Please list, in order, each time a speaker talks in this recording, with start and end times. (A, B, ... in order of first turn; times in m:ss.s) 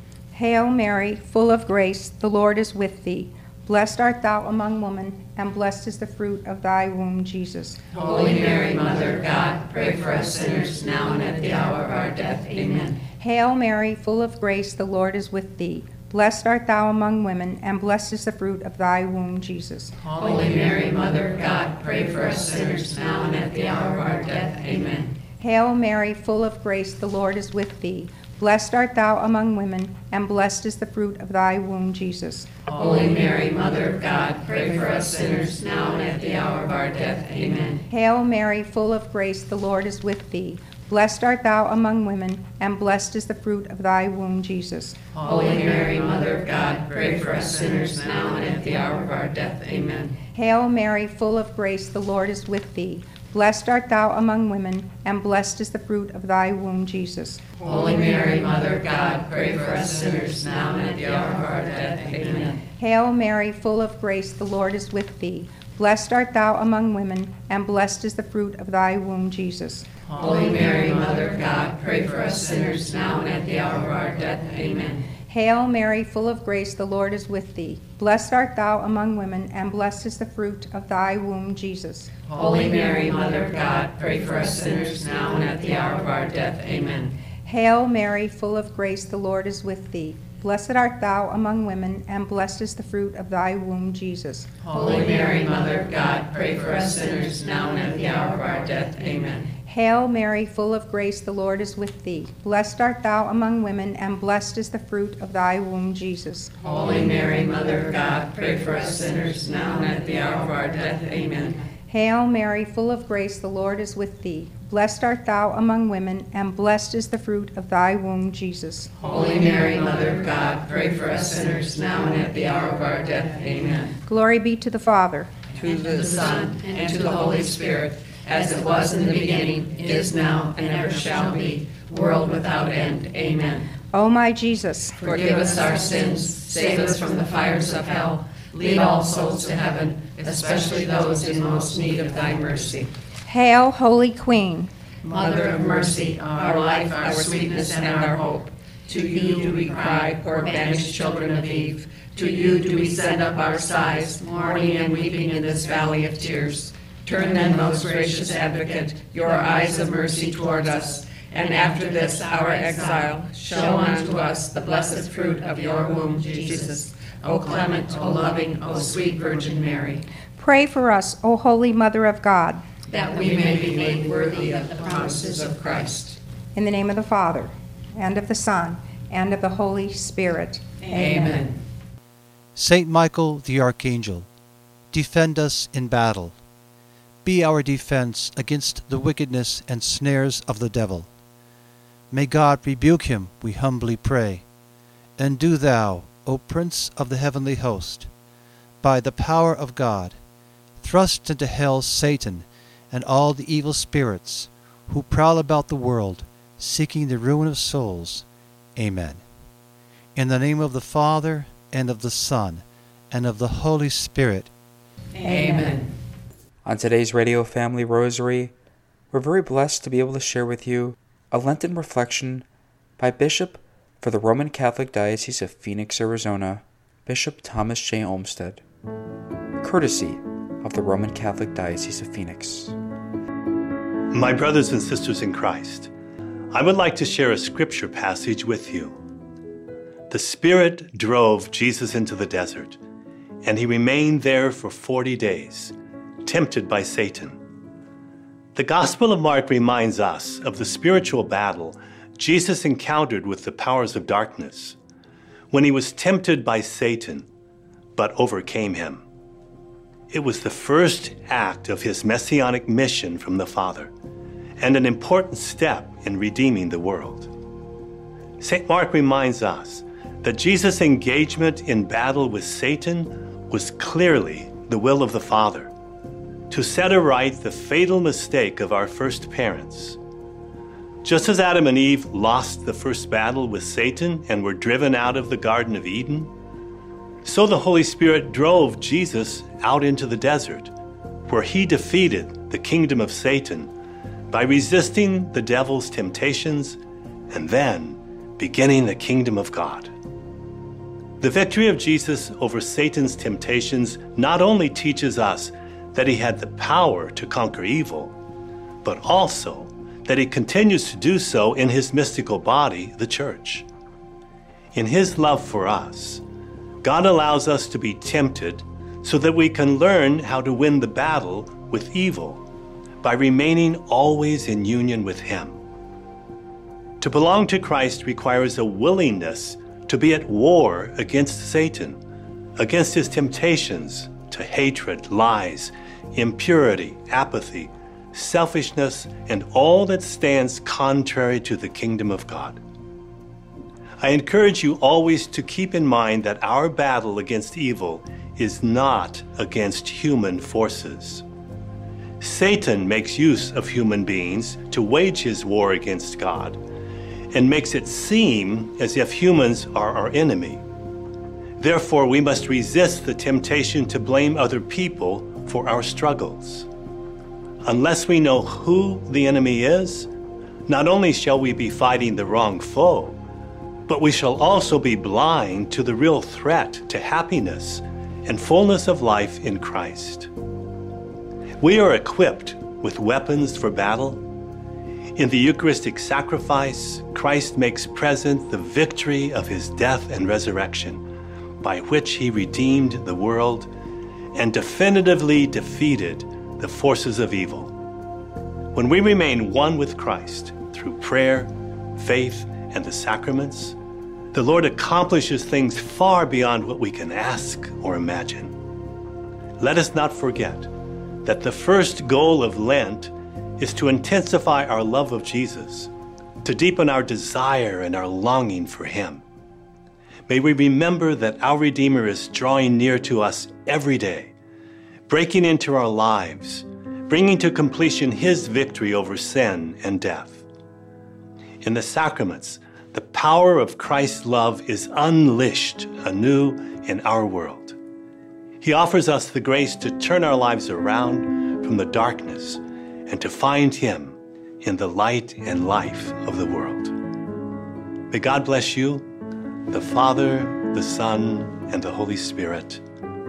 0:00.3-0:07.8 A
0:08.0-0:13.0 B
0:13.2-0:20.0 A
0:20.1-0:25.1 B
0:25.4-0:32.5 A
0:32.7-0:37.8 B
0:37.9-0:45.0 A
0:45.2-0:50.2 B
0:50.3-0:57.4 A
0:57.6-1:02.6 B
1:02.8-1:09.9 A
1:10.1-1:15.0 B
1:15.3-1:22.1 A
1:22.3-1:27.2 B
1:27.4-1:34.5 A
1:34.7-1:39.5 B
1:39.7-1:46.5 A
1:46.6-1:51.6 B
1:51.9-1:59.0 A
1:59.0-2:04.0 B
2:04.1-2:05.3 A
2:05.5-2:13.7 B
2:13.9-2:15.0 A
2:15.0-2:22.9 B
2:23.3-2:24.7 A
2:25.0-2:50.0 B
2:50.4-2:52.6 A
2:52.9-2:56.2 B
2:56.5-3:00.7 A
3:00.9-3:01.6 B
3:02.5-3:04.3 C
3:04.9-3:06.4 C
3:07.2-3:11.1 C
3:12.1-3:14.5 C
3:15.2-3:18.1 C
3:18.8-3:20.2 C
3:20.8-3:28.2 C
3:28.8-3:29.2 C
3:30.2-3:34.5 C
3:35.2-3:35.9 B
3:36.6-3:38.5 D
3:39.1-3:42.4 D
3:43.0-3:48.6 D
3:49.6-3:52.8 D
3:54.1-3:55.9 E
3:56.5-3:59.0 E
4:00.1-4:02.8 E
4:03.4-4:05.7 E
4:06.2-4:07.4 E
4:08.5-4:14.8 E
4:15.5-4:17.3 E
4:18.0-4:19.0 E
4:20.1-4:23.9 E
4:24.6-4:27.3 E
4:28.4-4:35.7 E
4:36.5-4:40.0 E
4:41.0-4:46.3 E
4:47.2-4:50.7 E
4:51.3-4:53.7 E
4:54.3-4:56.8 E
4:57.3-4:59.9 E
5:01.2-5:08.1 E
5:08.8-5:13.7 E
5:14.7-5:16.2 E
5:16.8-5:22.4 E
5:23.0-5:25.6 E
5:27.0-5:32.0 E
5:32.6-5:42.6 E
5:44.0-5:51.2 E
5:52.2-5:56.6 E
5:57.3-6:00.6 E
6:01.6-6:06.7 E
6:07.6-6:10.1 E
6:10.7-6:13.2 E
6:13.9-6:20.3 E
6:21.6-6:24.2 E
6:25.2-6:31.0 E
6:31.6-6:33.7 E
6:34.4-6:37.7 E
6:38.7-6:43.8 E
6:44.3-6:48.5 E
6:49.6-6:50.7 E
6:51.2-6:55.9 E
6:56.4-6:59.2 E
7:00.3-7:04.3 E
7:05.1-7:10.4 E
7:11.6-7:17.8 E
7:18.6-7:27.0 E
7:28.1-7:29.1 E
7:29.7-7:32.8 E